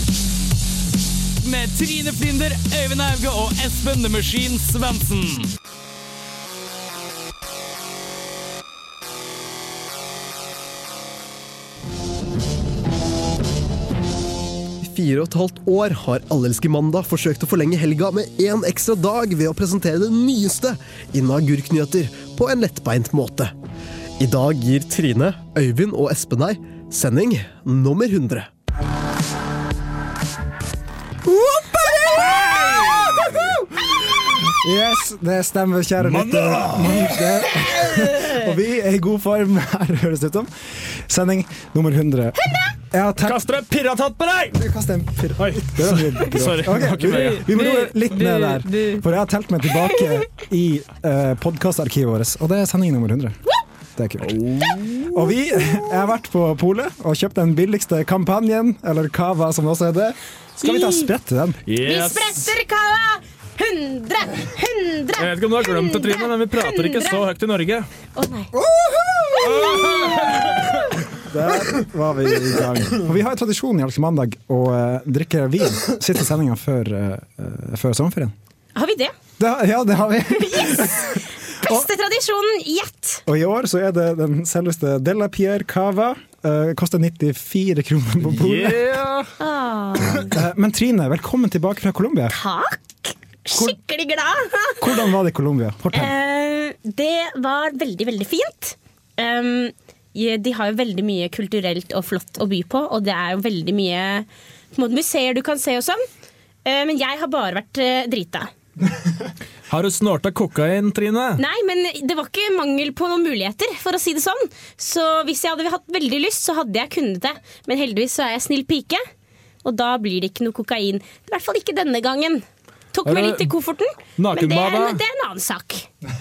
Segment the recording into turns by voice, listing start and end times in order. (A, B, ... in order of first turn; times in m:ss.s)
0:01.4-0:05.5 A
0:14.8-0:23.6 B
0:24.2-0:28.5 B
0:31.2-0:33.9 C
0:32.3-0:33.2 D
0:34.4-0:42.4 C
0:36.0-0:37.4 D
0:42.9-0:43.4 C
0:43.2-0:44.6 D
0:44.5-0:53.4 C
0:45.4-0:47.6 D
0:47.1-0:49.0 E
0:54.0-0:54.4 C
0:54.2-0:55.2 D
0:55.1-1:01.6 C
1:00.6-1:01.1 E
1:01.7-1:02.5 D
1:01.8-1:07.2 E
1:05.2-1:07.9 D
1:08.2-1:08.5 E
1:08.5-1:10.0 C
1:09.4-1:10.5 E
1:09.5-1:10.6 D
1:11.2-1:18.3 C
1:18.8-1:19.1 E
1:19.4-1:21.9 C
1:20.4-1:23.2 E
1:23.3-1:29.0 C
1:28.3-1:29.3 D
1:29.4-1:30.3 E
1:30.2-1:32.4 C
1:32.3-1:34.9 E
1:34.8-1:36.1 C
1:35.9-1:46.0 E
1:46.6-1:48.5 E
1:49.7-1:51.4 D
1:51.4-1:59.0 E
1:59.6-2:05.9 E
2:03.0-2:03.5 D
2:04.2-2:05.0 D